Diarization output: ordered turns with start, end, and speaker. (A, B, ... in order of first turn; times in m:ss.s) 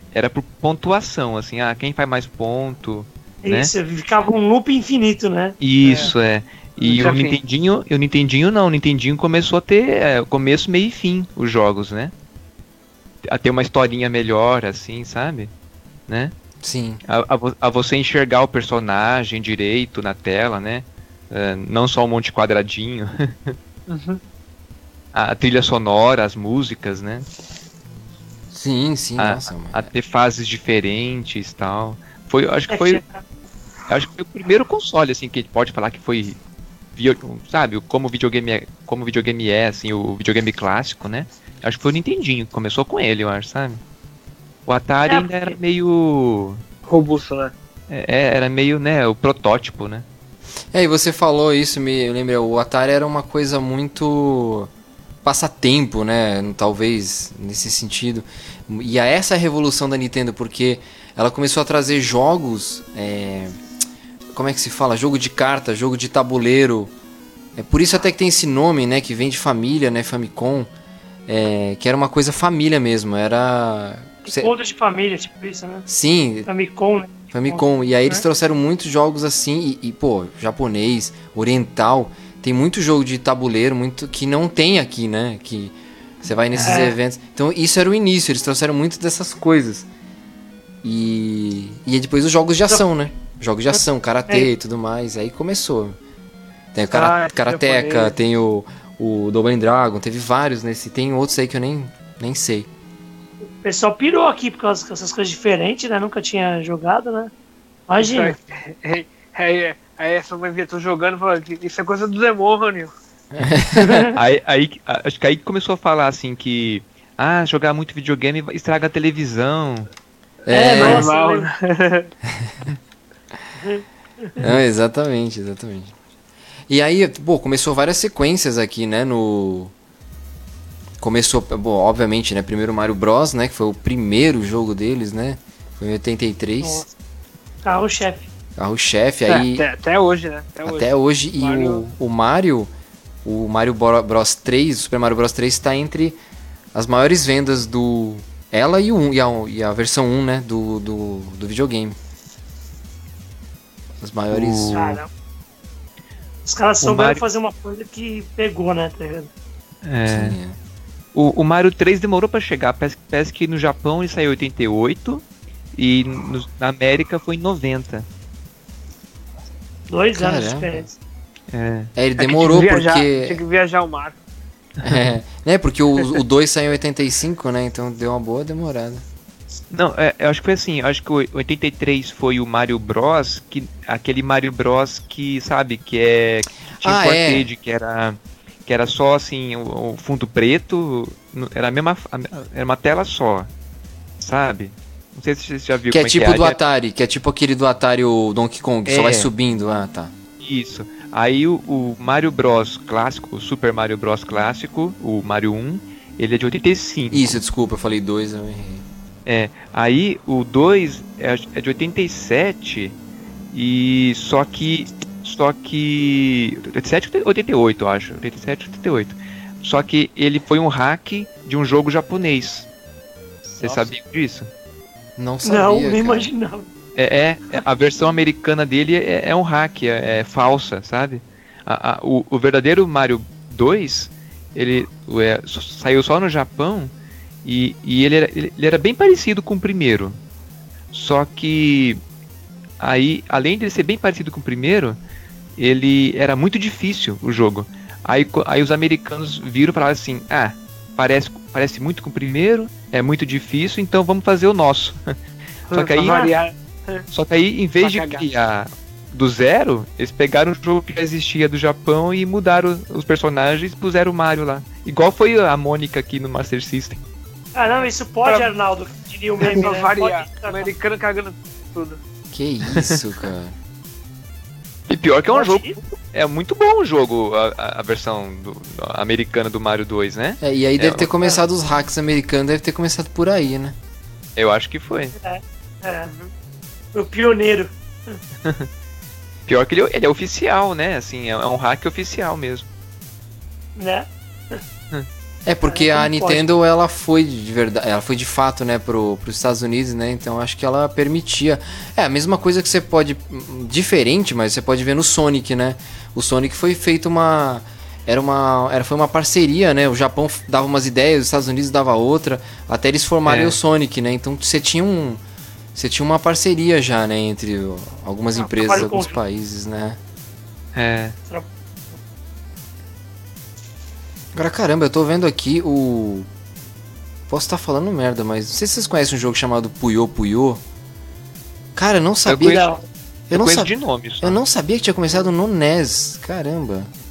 0:00.1-0:03.7 A
0:03.4-0:05.6 B
0:05.6-0:12.1 A
0:05.8-0:06.1 C
0:06.8-0:07.4 C
0:13.2-0:15.5 A
0:16.1-0:16.3 A
0:16.6-0:17.0 D
0:17.1-0:23.6 A
0:23.9-0:24.2 C
0:25.1-0:27.3 A
0:28.5-0:29.8 D
0:29.2-0:33.0 A
0:32.7-0:33.0 B
0:33.9-0:36.4 A
0:36.9-0:43.8 A
0:44.7-0:46.6 A
0:45.0-0:45.5 B
0:46.9-0:47.5 C
0:47.9-0:50.0 A
0:50.7-0:54.7 D
0:55.2-1:03.6 D
1:04.3-1:06.9 D
1:07.6-1:10.7 D
1:11.3-1:14.5 D
1:14.3-1:15.9 B
1:15.9-1:16.5 D
1:16.4-1:18.2 B
1:17.3-1:29.9 D
1:26.6-1:26.9 B
1:30.8-1:36.0 D
1:36.7-1:42.7 D
1:36.9-1:38.1 C
1:43.6-1:47.3 B
1:47.9-1:48.4 B
1:48.0-1:52.9 C
1:53.3-1:54.0 D
1:53.8-1:54.1 B
1:54.1-1:59.9 A
2:00.5-2:01.1 D
2:00.5-2:01.5 B
2:00.7-2:02.1 C
2:03.6-2:04.3 B
2:04.4-2:05.9 D
2:06.7-2:09.7 D
2:11.0-2:16.8 D
2:16.6-2:16.9 B
2:17.6-2:18.3 B
2:18.6-2:19.6 D
2:19.3-2:21.8 C
2:20.6-2:22.7 D
2:23.2-2:26.2 D
2:26.7-2:32.0 D
2:34.0-2:35.0 D
2:34.3-2:34.9 A
2:34.7-2:35.1 B
2:36.4-2:39.3 B
2:36.8-2:37.2 A
2:39.8-2:40.4 A
2:40.1-2:40.6 D
2:41.1-2:45.2 A
2:45.8-2:48.0 A
2:49.9-2:50.9 B
2:50.1-2:50.9 D
2:51.5-2:51.9 A
2:52.0-2:53.4 D
2:52.2-2:54.2 C
2:54.8-2:55.1 A
2:54.8-2:59.0 D
2:59.7-3:13.5 A
3:06.8-3:07.5 D
3:14.2-3:16.6 A
3:15.9-3:20.1 D
3:18.9-3:19.3 A
3:20.4-3:27.4 A
3:27.1-3:28.8 D
3:29.3-3:32.9 A
3:33.5-3:42.7 A
3:43.6-3:44.5 A
3:45.2-3:46.3 D
3:45.4-3:46.7 B
3:47.0-3:56.9 A
3:57.4-4:00.2 A
4:00.9-4:02.0 A
4:02.8-4:05.0 A
4:05.6-4:15.1 A
4:15.7-4:17.0 C
4:15.7-4:16.2 A
4:16.0-4:16.3 B
4:17.1-4:27.0 A
4:17.8-4:18.3 C
4:27.6-4:30.7 B
4:29.4-4:32.0 C
4:32.3-4:33.5 D
4:32.7-4:33.0 A
4:34.9-4:41.1 A
4:35.3-4:35.7 B
4:40.4-4:43.7 D
4:44.4-4:45.1 A
4:45.2-4:46.3 B
4:46.9-4:48.2 B
4:49.5-4:52.6 A
4:53.8-4:54.6 B
4:55.4-5:15.2 D
4:55.6-4:56.4 B
5:13.3-5:13.6 A
5:15.7-5:20.0 D
5:18.4-5:19.2 B
5:20.7-5:21.2 A
5:24.3-5:26.3 D
5:27.3-5:30.6 D
5:31.8-5:32.7 D
5:32.3-5:32.6 A
5:32.4-5:32.8 B
5:33.3-5:36.9 D
5:33.3-5:34.4 A